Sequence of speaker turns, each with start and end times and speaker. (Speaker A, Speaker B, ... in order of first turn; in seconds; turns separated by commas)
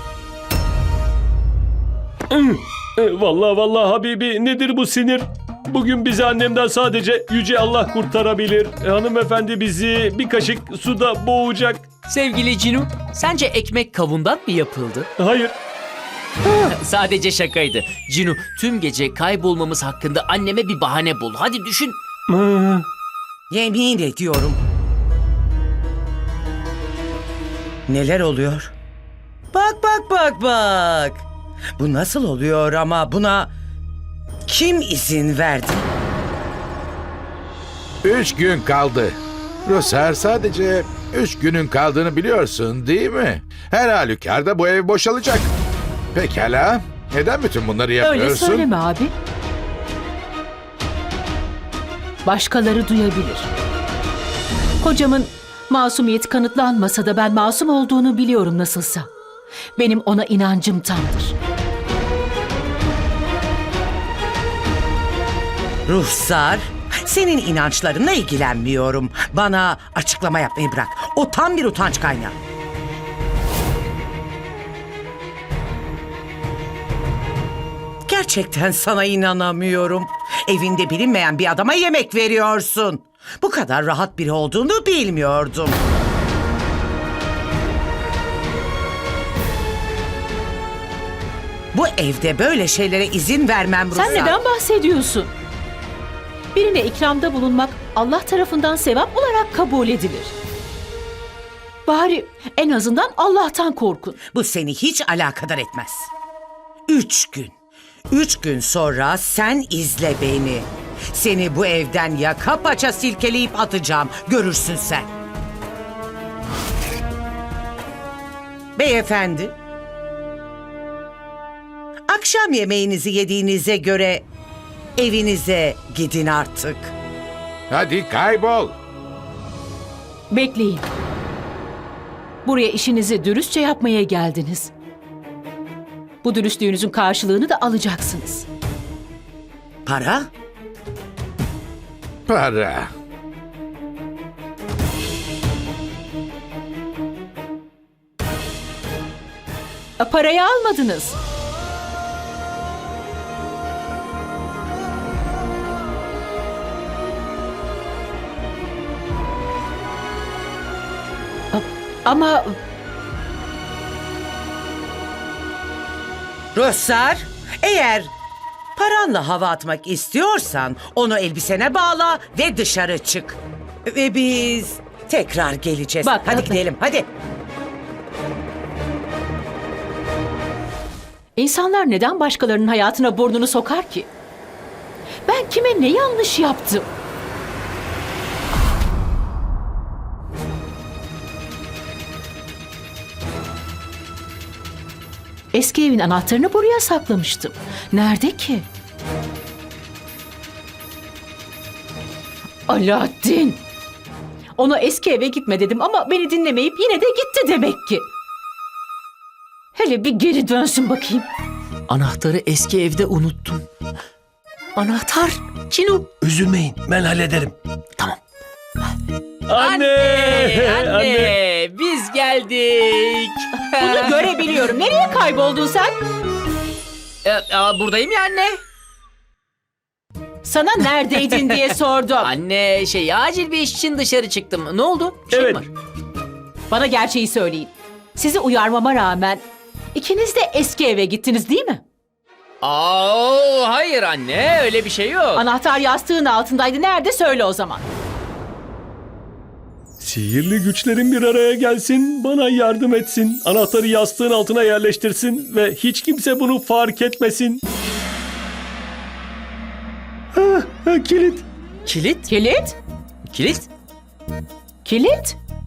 Speaker A: 2.3-11.9, Speaker B: 12.1-15.1, Speaker A: 15.2-15.5, Speaker A: 16.4-16.7, Speaker B: 16.7-22.0, Speaker A: 22.3-22.9, Speaker C: 23.5-24.6, Speaker C: 27.9-28.7, Speaker C: 29.5-31.2, Speaker C: 31.8-33.5, Speaker C: 34.5-35.9, Speaker D: 38.0-45.5, Speaker D: 46.1-48.7, Speaker E: 48.0-49.1, Speaker E: 52.2-53.5, Speaker E: 54.8-59.1, Speaker E: 59.8-61.4, Speaker C: 65.9-72.3, Speaker C: 78.1-85.8, Speaker C: 91.7-94.4, Speaker E: 93.9-95.3, Speaker E: 96.5-100.3, Speaker E: 101.9-104.2, Speaker C: 104.3-106.1, Speaker C: 106.9-107.5, Speaker C: 108.1-115.1, Speaker C: 118.8-119.5, Speaker C: 122.1-124.3, Speaker C: 125.0-126.9, Speaker D: 127.7-128.7, Speaker E: 130.3-130.9, Speaker E: 132.4-134.7, Speaker E: 136.2-138.5, Speaker C: 139.9-140.3, Speaker D: 142.3-142.9, Speaker E: 150.0-151.2, Speaker E: 161.5-162.6, Speaker C: 166.6-168.1, Speaker C: 168.8-177.1, Speaker E: 176.0-176.6, Speaker E: 181.4-184.1, Speaker E: 185.3-186.9, Speaker E: 195.5-198.7, Speaker E: 202.7-203.6, Speaker E: 204.6-208.1, Speaker E: 209.8-211.3, Speaker B: 211.9-213.7, Speaker B: 214.8-216.1, Speaker A: 216.2-217.5, Speaker A: 219.5-221.4, Speaker B: 219.5-224.3, Speaker E: 223.8-225.9, Speaker B: 227.2-228.6, Speaker E: 230.4-232.3, Speaker B: 231.1-231.7, Speaker B: 232.2-235.7, Speaker A: 235.3-235.7, Speaker E: 236.7-239.4, Speaker E: 239.9-241.8, Speaker B: 242.6-245.4, Speaker E: 245.3-247.9, Speaker A: 250.0-257.6, Speaker A: 260.3-261.4, Speaker B: 261.9-262.3, Speaker E: 262.3-262.8, Speaker B: 263.3-263.7, Speaker E: 264.9-265.4